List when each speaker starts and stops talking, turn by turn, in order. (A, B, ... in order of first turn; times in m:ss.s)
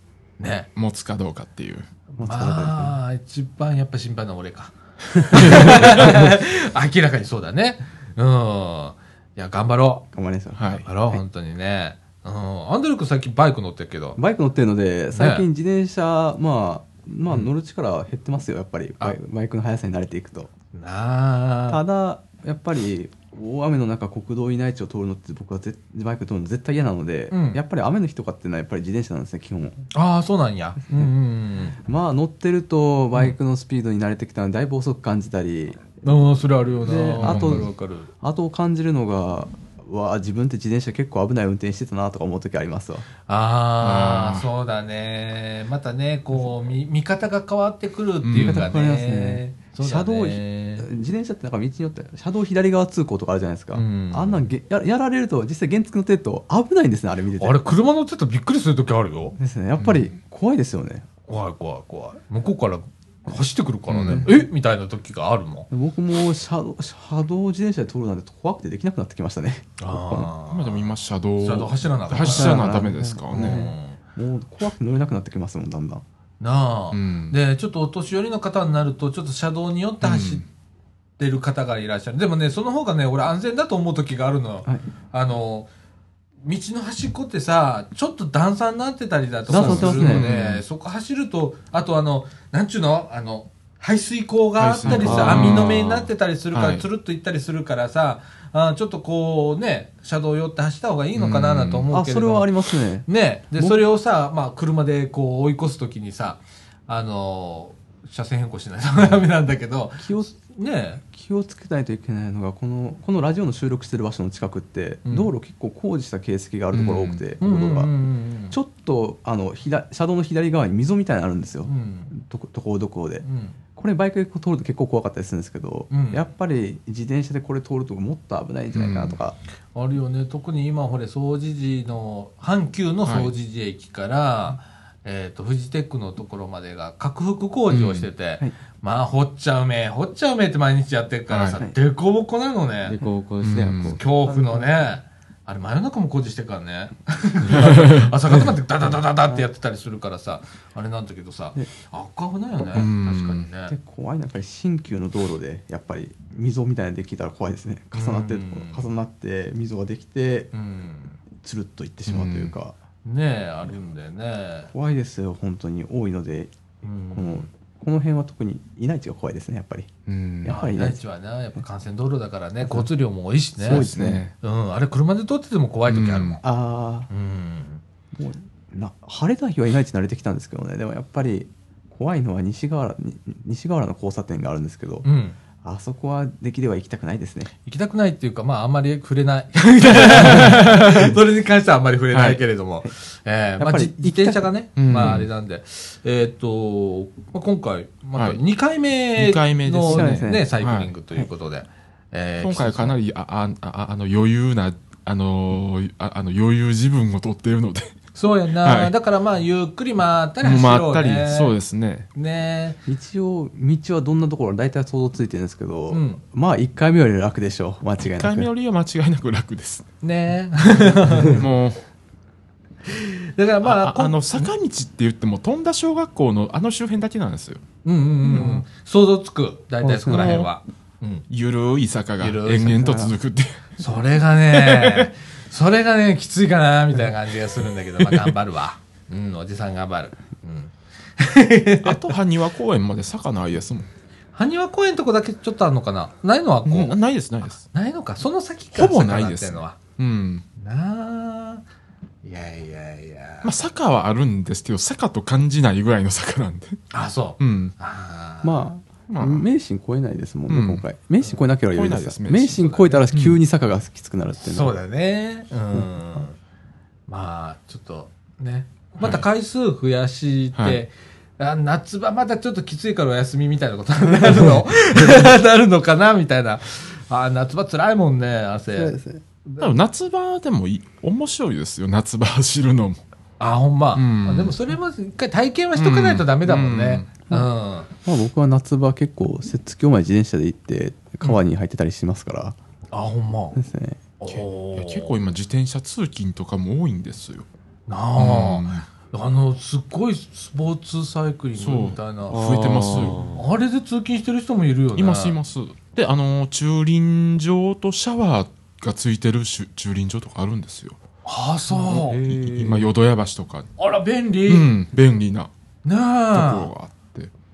0:00.4-0:00.7 A
0:00.7-0:01.9 B
0:02.1-0:10.1 A
0:02.2-0:02.9 C
0:05.3-0:05.6 C
0:05.5-0:06.0 B
0:10.1-0:11.2 C
0:10.6-0:10.9 B
0:10.8-0:14.2 A
0:14.2-0:20.5 C
0:15.1-0:15.4 A
0:20.7-0:21.8 A
0:21.7-0:29.8 C
0:27.3-0:27.6 A
0:29.9-0:31.8 A
0:31.8-0:35.9 C
0:36.0-0:38.1 A
0:36.8-0:43.1 C
0:37.2-0:37.7 B
0:43.3-0:50.9 A
0:43.8-0:44.5 B
0:48.2-0:48.6 B
0:48.4-0:57.6 C
0:53.7-0:54.5 A
0:57.4-0:59.4 A
0:59.4-1:01.1 C
0:59.8-1:00.1 B
1:01.3-1:05.7 A
1:03.9-1:04.3 B
1:04.1-1:04.5 C
1:05.7-1:10.3 C
1:09.8-1:12.7 A
1:10.5-1:13.6 B
1:12.1-1:16.0 C
1:13.3-1:14.0 A
1:16.4-1:20.4 A
1:16.9-1:17.4 B
1:20.0-1:20.4 B
1:21.2-1:25.7 A
1:26.4-1:42.5 A
1:29.5-1:30.3 C
1:29.5-1:30.6 B
1:29.6-1:30.0 D
1:34.6-1:36.8 B
1:34.9-1:35.7 D
1:34.9-1:35.6 C
1:41.1-1:41.9 B
1:41.9-1:43.8 C
1:43.1-1:51.0 A
1:50.0-1:50.3 C
1:51.0-1:57.9 C
1:55.1-1:55.3 A
1:56.7-1:57.2 B
1:57.4-1:58.6 A
1:58.5-2:03.2 C
2:01.6-2:02.1 A
2:03.2-2:03.6 A
2:03.8-2:09.4 C
2:05.9-2:06.2 A
2:08.7-2:09.2 B
2:09.7-2:23.0 A
2:13.0-2:13.3 B
2:17.7-2:18.1 B
2:21.3-2:21.6 B
2:22.8-2:24.0 D
2:23.4-2:24.0 B
2:23.9-2:33.7 A
2:24.2-2:24.8 C
2:27.5-2:28.1 B
2:32.7-2:33.5 B
2:33.7-2:40.5 C
2:37.9-2:38.9 A
2:40.5-2:41.2 A
2:41.4-2:42.7 C
2:42.1-2:42.5 B
2:43.0-2:44.7 A
2:44.7-2:46.5 C
2:46.8-2:47.5 A
2:47.1-2:49.9 C
2:50.1-2:50.6 B
2:50.4-2:51.0 C
2:50.5-2:56.4 A
2:52.6-2:52.9 C
2:53.6-2:54.3 B
2:53.6-2:54.2 C
2:55.9-2:56.4 B
2:56.4-2:57.1 C
2:57.1-2:57.8 A
2:58.1-3:05.1 C
3:05.0-3:05.4 A
3:05.6-3:07.5 C
3:07.6-3:23.0 A
3:09.9-3:10.5 C
3:10.2-3:11.1 B
3:12.1-3:12.4 B
3:13.6-3:15.2 C
3:14.8-3:15.3 B
3:18.2-3:18.4 B
3:19.1-3:20.9 B
3:19.8-3:20.4 C
3:22.4-3:28.0 B
3:28.1-3:31.6 A
3:28.6-3:28.9 B
3:30.4-3:32.1 B
3:32.1-3:32.8 A
3:32.9-3:38.5 C
3:35.9-3:36.2 A
3:38.2-3:39.9 B
3:40.0-3:41.4 A
3:41.2-3:41.8 B
3:42.9-3:44.5 A
3:43.6-3:47.6 B
3:47.8-3:51.2 A
3:48.3-3:48.6 C
3:49.8-3:50.4 C
3:50.0-3:50.5 B
3:51.3-3:53.9 B
3:52.2-3:52.9 A
3:52.8-3:53.2 C
3:53.8-4:02.2 A
3:54.5-3:55.1 B
3:58.0-3:58.4 B
4:01.8-4:03.9 B
4:04.4-4:06.9 A
4:06.6-4:07.6 B
4:07.7-4:09.8 A
4:08.7-4:10.4 B
4:10.6-4:11.6 A
4:12.2-4:13.5 A
4:13.4-4:16.8 B
4:16.9-4:18.6 A
4:17.4-4:17.7 B
4:18.4-4:24.7 C
4:19.1-4:19.4 B
4:20.5-4:20.8 B
4:21.7-4:23.4 B
4:24.4-4:26.4 A
4:27.1-4:39.7 A
4:30.6-4:30.8 B
4:34.0-4:34.4 C
4:38.7-4:39.2 C
4:39.6-4:43.0 B
4:43.4-4:47.9 A
4:43.9-4:44.6 B
4:45.8-4:47.1 B
4:48.0-4:52.6 C
4:52.9-4:53.6 A
4:53.6-4:54.0 C
4:54.2-4:55.1 A
4:54.3-4:57.5 B
4:57.9-5:05.4 A
4:58.2-4:58.8 B
5:01.6-5:03.3 B
5:02.3-5:03.4 D
5:04.9-5:11.0 B
5:11.2-5:12.2 A
5:11.7-5:12.9 D
5:11.9-5:13.7 B
5:13.8-5:14.7 A
5:14.5-5:15.5 B
5:15.8-5:16.7 A
5:16.3-5:17.3 B